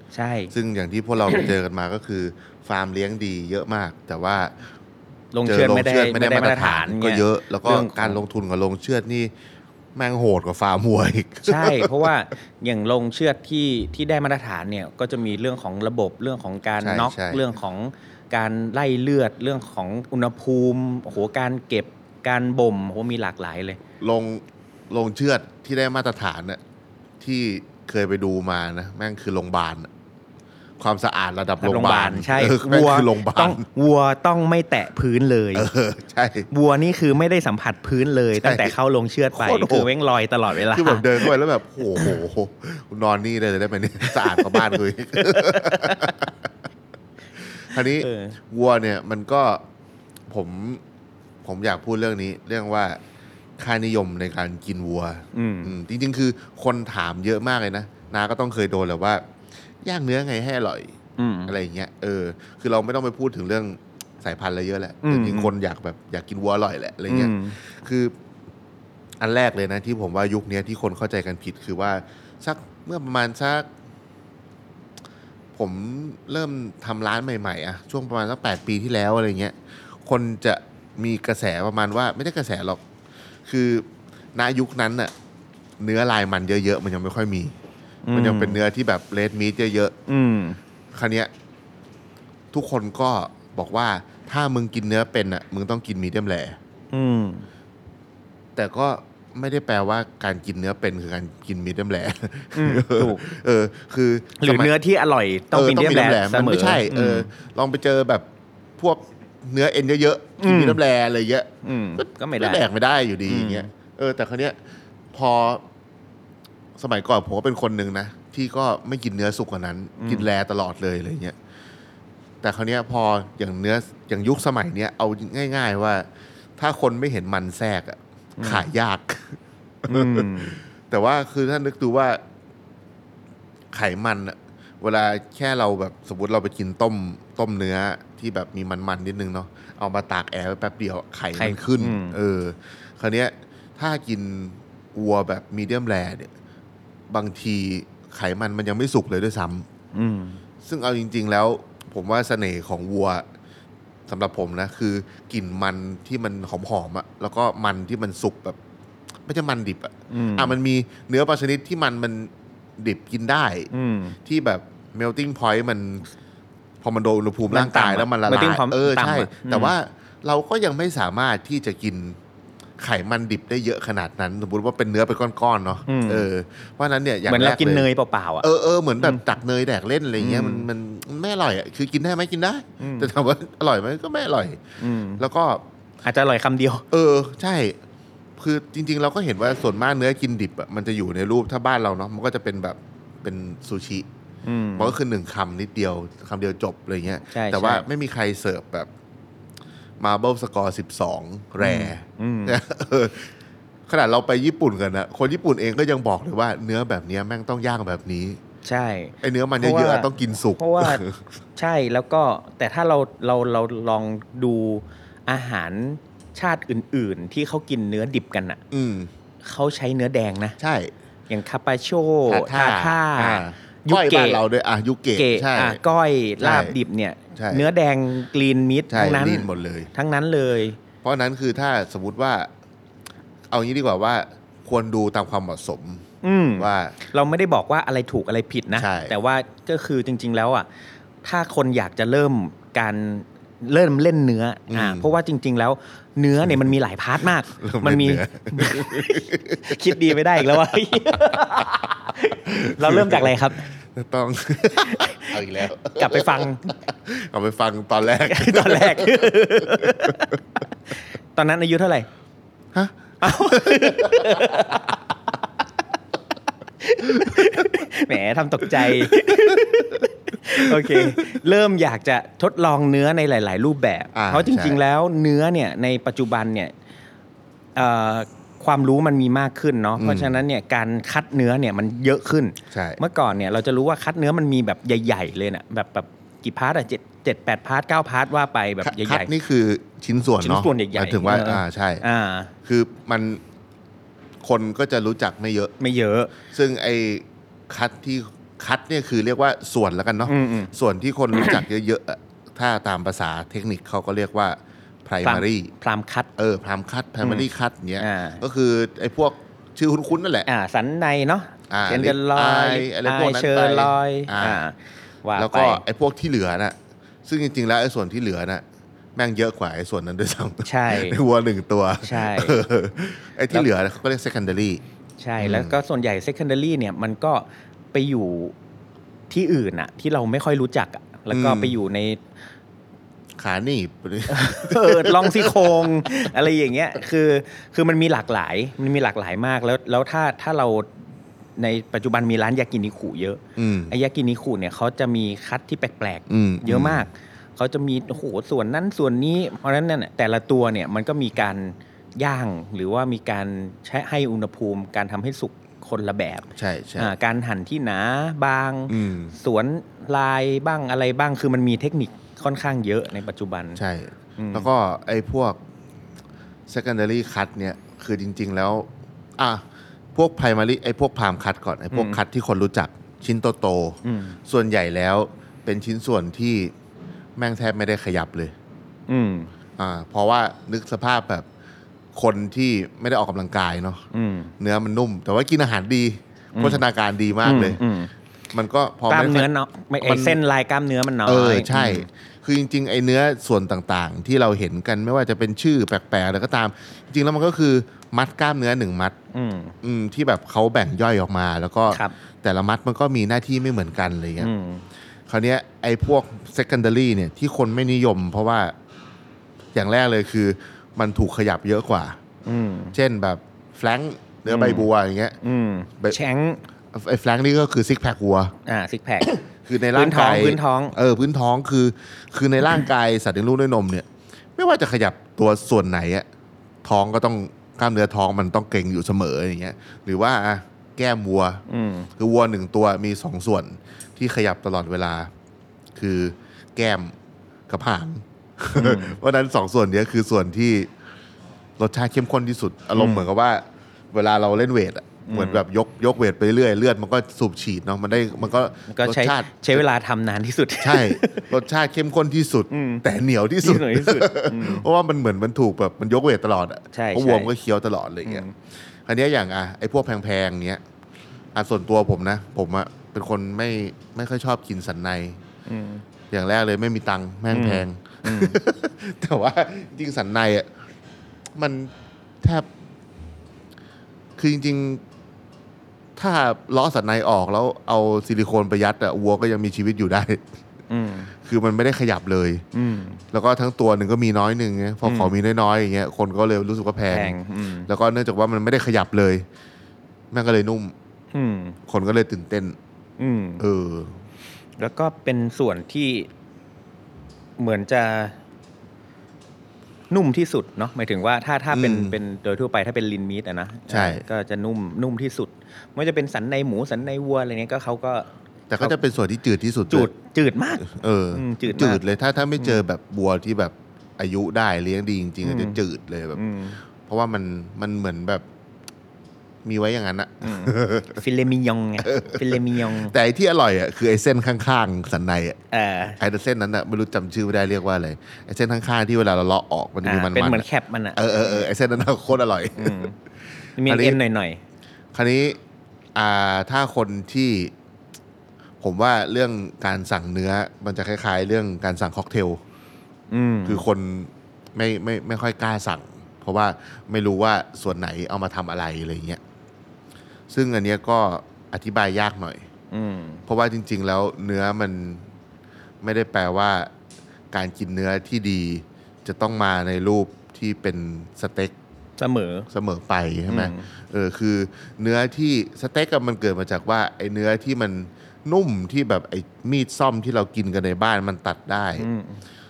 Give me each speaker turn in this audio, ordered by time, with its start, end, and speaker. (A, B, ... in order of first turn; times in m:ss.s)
0:00.1-0:00.5 A
0:00.5-0:04.5 B
0:05.3-0:08.2 A
0:05.4-0:09.3 B
0:10.0-0:12.1 B
0:11.4-0:23.8 A
0:16.8-0:17.5 B
0:24.0-0:26.6 B
0:27.2-0:29.9 B
0:30.8-0:33.7 B
0:31.6-0:35.7 A
0:35.6-0:36.5 B
0:36.5-0:41.3 A
0:38.4-0:38.8 B
0:39.3-0:39.9 B
0:40.5-0:46.5 B
0:44.1-0:46.2 A
0:47.4-0:49.6 B
0:47.7-0:48.4 A
0:50.3-0:50.8 B
0:51.4-0:53.0 B
0:53.6-0:59.2 B
0:55.3-0:55.8 A
0:59.8-1:01.0 B
1:01.2-1:01.5 A
1:01.5-1:08.1 B
1:05.0-1:05.5 A
1:07.1-1:07.6 A
1:09.2-1:13.7 B
1:15.6-1:22.8 B
1:23.5-1:25.1 B
1:25.8-1:27.6 B
1:28.1-1:28.6 A
1:28.1-1:30.0 B
1:30.1-1:30.6 A
1:30.9-1:31.3 B
1:32.5-1:36.6 B
1:36.9-1:37.5 A
1:38.6-1:44.7 B
1:42.6-1:43.2 A
1:44.4-1:47.3 A
1:45.5-1:48.3 B
1:48.8-1:54.6 B
1:50.4-1:50.8 A
1:51.6-1:52.6 A
1:53.3-1:53.7 A
1:55.1-1:55.6 B
1:56.8-2:01.4 B
2:00.0-2:00.3 A
2:02.4-2:12.2 B
2:08.4-2:08.6 A
2:09.9-2:10.6 A
2:13.7-2:26.3 B
2:21.4-2:22.2 A
2:27.1-2:29.7 B
2:29.9-2:30.4 A
2:30.6-2:33.3 B
2:34.1-2:38.6 B
2:39.3-2:43.7 B
2:40.1-2:40.5 A
2:43.7-2:44.2 A
2:44.2-2:46.1 B
2:46.8-2:52.2 B
2:47.5-2:49.7 A
2:52.8-2:57.9 B
2:55.9-2:56.3 A
2:57.3-2:58.5 A
2:58.4-3:04.6 B
3:00.2-3:00.7 A
3:02.8-3:03.1 A
3:04.8-3:05.2 A
3:05.2-3:05.6 B
3:06.0-3:06.9 A
3:06.9-3:07.8 B
3:08.4-3:14.1 B
3:14.4-3:15.0 A
3:14.8-3:18.9 B
3:17.3-3:17.9 A
3:20.0-3:23.3 B
3:21.6-3:22.6 A
3:23.9-3:28.4 B
3:28.6-3:31.0 A
3:29.2-3:31.2 B
3:31.6-3:38.6 A
3:38.7-3:39.1 B
3:39.4-3:40.6 A
3:40.6-3:40.9 B
3:41.3-3:44.4 A
3:42.3-3:45.8 B
3:45.2-3:50.8 A
3:46.4-3:46.8 B
3:47.4-3:47.7 B
3:48.9-3:49.9 B
3:51.0-3:52.5 B
3:53.5-3:57.0 B
3:56.2-4:00.7 A
3:58.8-3:59.2 B
4:01.2-4:13.7 A
4:04.7-4:05.1 B
4:06.4-4:06.7 B
4:07.5-4:11.8 B
4:12.4-4:20.2 B
4:14.8-4:15.4 A
4:16.0-4:16.7 A
4:18.3-4:20.4 A
4:21.4-4:22.1 A
4:22.7-4:24.8 B
4:23.2-4:25.0 A
4:26.8-4:36.7 A
4:27.1-4:27.7 B
4:28.7-4:30.0 B
4:30.6-4:31.2 B
4:34.1-4:34.8 B
4:37.8-4:49.3 A
4:40.0-4:40.4 B
4:42.7-4:43.0 B
4:48.8-4:52.0 B
4:50.4-4:52.5 A
4:52.6-4:53.4 B
4:54.4-4:55.7 B
4:55.8-4:56.3 A
4:56.4-5:05.7 B
5:00.3-5:00.7 A
5:01.3-5:01.6 A
5:05.2-5:06.3 A
5:06.4-5:10.5 B
5:08.0-5:08.4 A
5:10.5-5:15.8 A
5:11.7-5:14.6 B
5:15.4-5:18.6 B
5:19.2-5:24.8 B
5:20.6-5:21.2 A
5:22.0-5:22.6 A
5:25.2-5:28.6 A
5:25.4-5:25.8 B
5:29.3-5:32.2 A
5:31.3-5:31.8 B
5:33.4-5:36.3 B
5:34.3-5:40.9 A
5:41.6-6:03.8 A
5:43.6-5:43.9 B
5:46.3-5:47.1 B
5:56.6-5:57.1 B
5:58.9-5:59.4 B
6:03.8-6:05.6 B
6:04.4-6:04.7 A
6:06.7-6:16.7 B
6:11.9-6:12.2 A
6:14.0-6:14.4 A
6:17.4-6:18.5 B
6:19.1-6:19.5 A
6:19.8-6:21.5 B
6:22.1-6:24.0 B
6:24.1-6:24.5 A
6:24.6-6:27.8 B
6:26.6-6:26.8 A
6:27.4-6:28.1 A
6:28.5-6:30.4 B
6:29.1-6:32.1 A
6:31.2-6:39.2 B
6:39.3-6:39.8 A
6:39.8-6:44.5 B
6:41.9-6:42.2 A
6:44.4-6:44.8 A
6:45.3-6:48.7 B
6:49.7-6:52.2 B
6:52.4-6:53.0 A
6:52.9-6:55.4 B
6:54.5-6:54.9 A
6:55.4-6:56.6 A
6:56.9-6:58.5 B
6:58.7-6:59.4 A
6:59.3-7:06.3 B
6:59.9-7:01.0 A
7:06.8-7:11.6 B
7:11.7-7:12.1 A
7:12.2-7:15.3 B
7:16.0-7:17.2 B
7:17.7-7:20.9 B
7:18.8-7:19.2 A
7:21.8-7:29.8 B
7:23.0-7:23.3 A
7:25.3-7:25.6 A
7:28.9-7:31.5 A
7:30.8-7:38.5 B
7:32.7-7:33.0 A
7:33.6-7:34.9 A
7:36.9-7:37.5 A
7:38.2-7:38.5 A
7:39.0-7:40.8 B
7:41.5-7:45.4 B
7:45.7-7:46.0 A
7:46.3-7:50.7 B
7:47.5-7:48.6 A
7:51.6-7:52.7 B
7:54.4-7:55.0 B
7:56.2-8:00.4 B
8:00.9-8:01.3 A
8:01.4-8:02.6 B
8:02.7-8:03.2 A
8:03.3-8:07.4 B
8:05.0-8:05.3 A
8:07.1-8:07.9 A
8:07.9-8:09.5 B
8:10.3-8:10.9 B
8:11.3-8:11.8 A
8:11.9-8:12.8 B
8:13.2-8:13.6 A
8:13.6-8:14.2 B
8:14.8-8:16.3 A
8:17.6-8:18.4 A
8:20.1-8:28.3 A
8:21.7-8:22.2 B
8:23.9-8:24.2 B
8:28.7-8:30.1 B
8:29.9-8:32.0 A
8:30.8-8:36.4 B
8:35.4-8:35.8 A
8:36.4-8:36.8 A
8:37.0-8:38.4 B
8:39.6-8:41.2 B
8:40.4-8:43.1 A
8:42.0-8:45.6 B
8:45.7-8:46.2 A
8:46.2-8:53.0 B
8:50.0-8:51.7 A
8:52.8-8:53.2 A
8:53.8-8:54.6 A
8:53.8-8:54.2 B
8:55.1-8:55.6 B
8:56.2-8:57.7 B
8:58.8-9:02.6 B
9:03.3-9:03.8 A
9:03.7-9:09.4 B
9:10.5-9:12.6 B
9:12.9-9:13.4 A
9:13.5-9:15.3 B
9:16.0-9:16.9 B
9:17.5-9:21.7 B
9:22.2-9:22.7 A
9:22.7-9:32.1 B
9:23.5-9:23.9 A
9:32.0-9:32.4 A